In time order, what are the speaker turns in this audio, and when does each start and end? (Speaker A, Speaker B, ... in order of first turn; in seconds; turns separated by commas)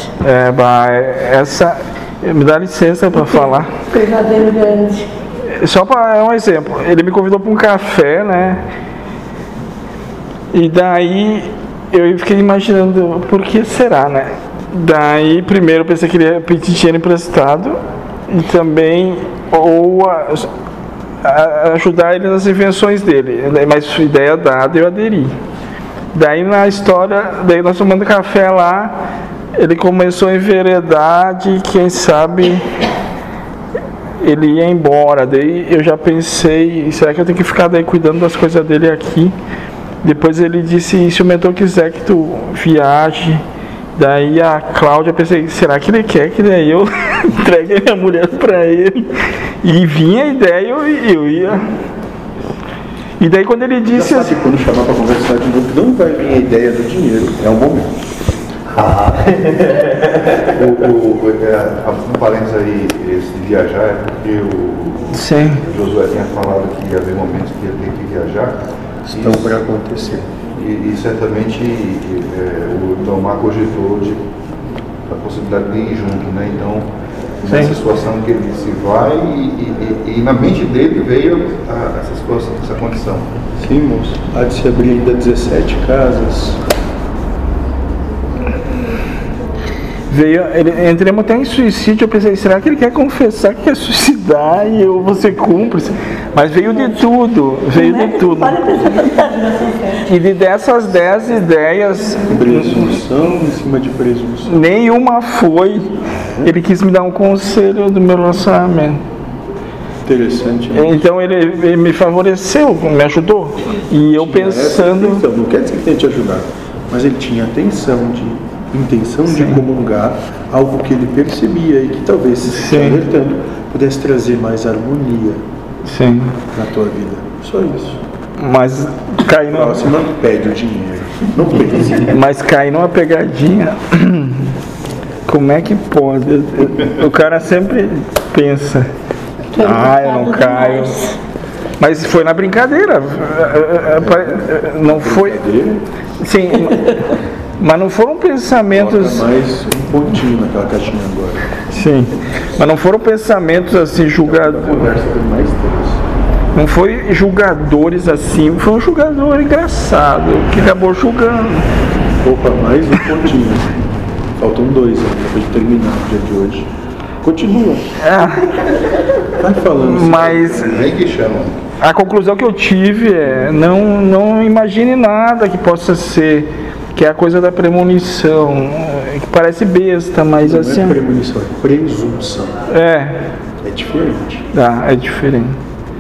Speaker A: 0.2-3.7, Speaker B: 3.9-5.1, Speaker A: 5.6-8.6, Speaker A: 10.5-17.8, Speaker A: 18.3-20.5, Speaker A: 21.2-25.3, Speaker A: 26.1-28.9, Speaker A: 29.6-32.6, Speaker A: 34.2-39.3, Speaker A: 40.0-43.4, Speaker A: 44.0-49.1, Speaker A: 49.6-51.6, Speaker A: 53.2-54.4, Speaker C: 53.9-57.9, Speaker D: 58.8-59.3, Speaker C: 59.3-59.7, Speaker D: 60.4-68.5, Speaker A: 65.1-65.6, Speaker C: 69.1-70.3, Speaker D: 69.1-69.5, Speaker D: 70.6-74.2, Speaker D: 75.1-76.9, Speaker D: 77.4-83.4, Speaker A: 77.5-77.8, Speaker C: 83.6-86.6, Speaker A: 90.1-98.6, Speaker B: 97.7-100.0, Speaker A: 100.0-103.0, Speaker C: 102.3-104.5, Speaker A: 104.5-105.9, Speaker A: 106.4-109.0, Speaker C: 110.0-111.0, Speaker A: 110.7-115.2, Speaker C: 114.1-125.4, Speaker A: 119.3-119.6, Speaker A: 122.5-123.0, Speaker A: 125.8-126.4, Speaker C: 126.5-128.0, Speaker A: 128.4-129.8, Speaker C: 129.4-132.1, Speaker A: 131.9-134.5, Speaker A: 135.3-138.9, Speaker B: 139.5-141.2, Speaker A: 139.6-141.0, Speaker A: 141.8-145.4, Speaker C: 144.0-145.8, Speaker A: 146.2-149.3, Speaker C: 148.7-151.5, Speaker A: 151.7-154.9, Speaker C: 154.0-156.0, Speaker A: 156.6-161.7, Speaker C: 162.2-163.8, Speaker C: 164.4-166.7, Speaker C: 167.2-167.9, Speaker A: 168.0-168.8, Speaker C: 169.4-170.8, Speaker A: 169.8-170.8, Speaker D: 170.6-171.6, Speaker A: 171.8-181.0, Speaker C: 180.4-182.6, Speaker A: 182.7-183.2, Speaker C: 183.6-184.5, Speaker A: 184.5-185.6